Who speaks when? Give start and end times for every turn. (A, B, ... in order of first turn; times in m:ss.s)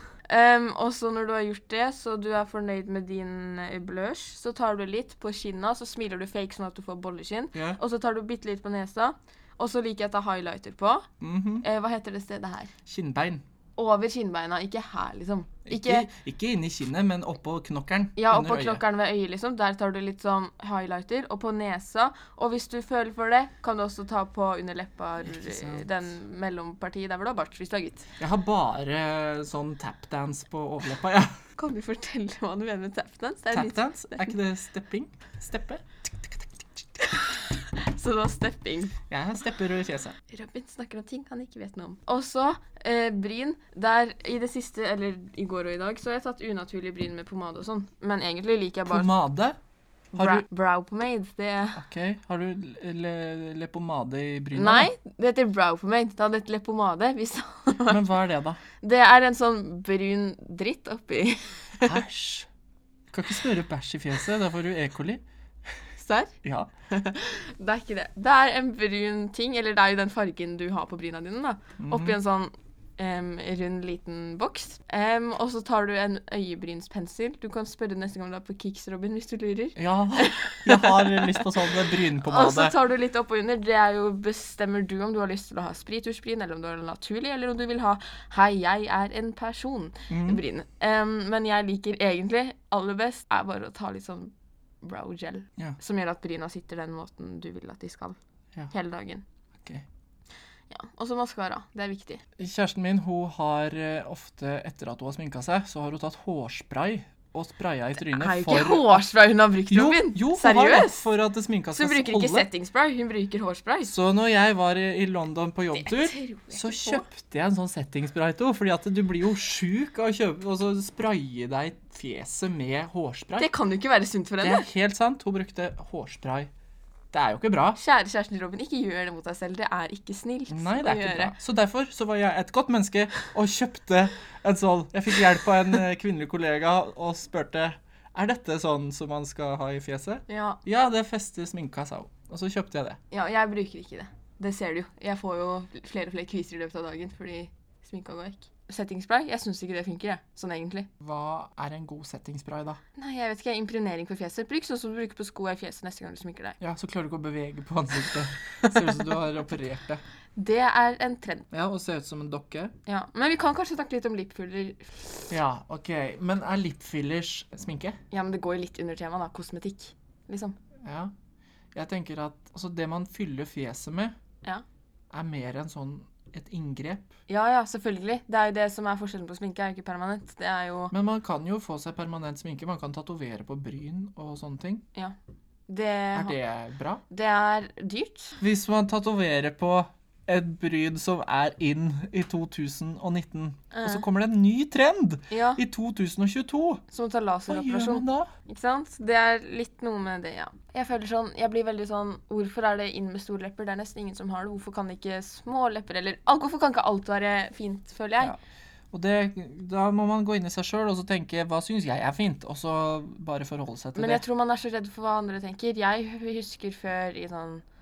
0:00.3-0:11.1 A
0:07.5-0:07.8 B
0:11.2-0:11.6 B
0:11.6-0:12.7 A
0:12.8-0:13.4 B
0:13.8-0:16.1 A
0:15.6-0:18.8 B
0:18.2-0:28.1 A
0:25.2-0:25.9 B
0:28.2-0:31.4 B
0:31.6-0:34.4 A
0:33.5-0:36.9 B
0:37.1-0:39.0 A
0:39.1-0:40.2 B
0:40.3-0:49.1 A
0:48.9-0:49.6 B
0:50.1-0:51.8 A
0:50.1-0:50.4 B
0:51.8-0:54.9 B
0:54.5-0:58.0 A
0:57.9-0:58.6 B
0:58.8-1:02.0 A
1:01.8-1:02.5 B
1:03.1-1:05.2 B
1:06.0-1:06.3 A
1:06.4-1:06.7 B
1:06.9-1:38.2 A
1:11.8-1:12.2 B
1:19.8-1:22.7 B
1:30.1-1:30.4 B
1:38.7-1:39.2 A
1:40.7-1:42.2 A
1:42.4-1:49.0 B
1:48.0-1:51.0 A
1:49.7-1:52.5 B
1:51.7-1:53.9 A
1:53.9-2:03.5 B
1:55.8-1:57.0 A
2:03.4-2:04.6 A
2:04.4-2:06.5 B
2:07.1-2:07.8 B
2:07.8-2:11.3 A
2:10.5-2:23.0 B
2:20.3-2:20.6 A
2:23.1-2:30.9 A
2:31.0-2:32.8 B
2:33.0-2:36.6 A
2:36.6-2:40.0 B
2:40.3-2:41.4 A
2:41.5-2:42.7 B
2:42.8-2:45.2 A
2:45.3-2:48.0 B
2:48.1-2:50.6 A
2:50.8-2:51.1 B
2:51.7-2:54.2 B
2:55.1-2:57.1 B
2:57.3-3:00.9 A
3:00.9-3:04.8 B
3:05.7-3:06.4 A
3:06.1-3:07.0 B
3:07.1-3:08.4 A
3:08.4-3:16.8 B
3:13.7-3:14.0 A
3:15.3-3:15.6 A
3:16.9-3:28.3 A
3:17.5-3:18.3 B
3:28.9-3:34.2 B
3:33.9-3:37.6 A